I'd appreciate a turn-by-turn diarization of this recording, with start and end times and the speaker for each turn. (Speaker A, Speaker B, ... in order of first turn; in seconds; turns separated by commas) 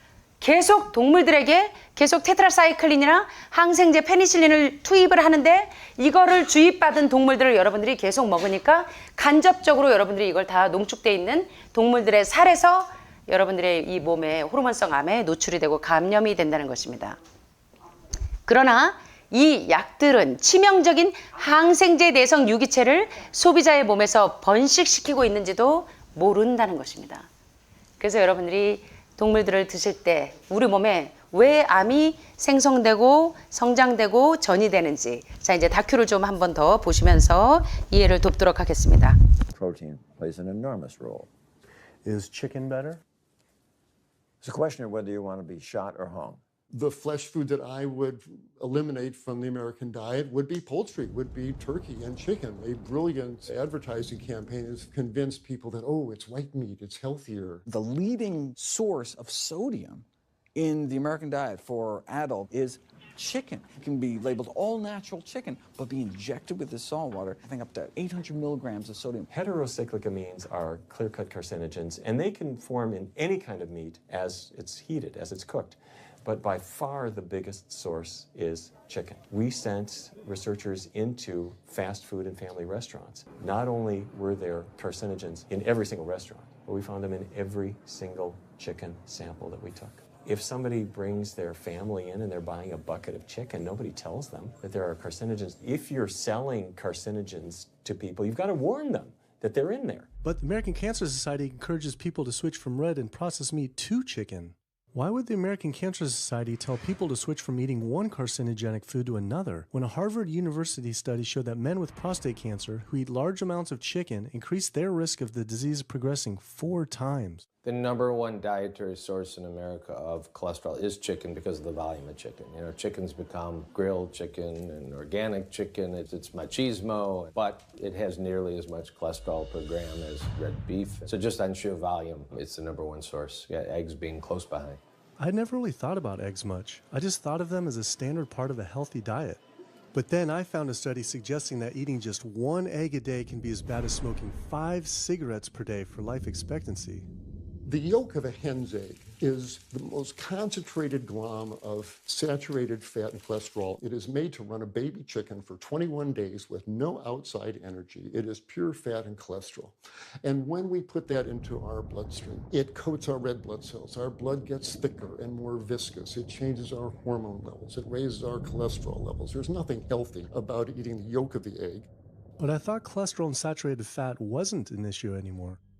Speaker A: 0.4-17.2, Speaker A: 18.5-27.3, Speaker A: 28.0-39.2, Speaker B: 39.5-41.3, Speaker C: 42.0-43.0, Speaker B: 44.4-46.4, Speaker D: 46.7-57.6, Speaker E: 57.7-69.3, Speaker F: 69.3-100.1, Speaker C: 100.2-117.5, Speaker G: 117.6-134.8, Speaker C: 135.2-139.4, Speaker C: 139.9-147.1, Speaker D: 147.6-171.9, Speaker C: 172.4-175.6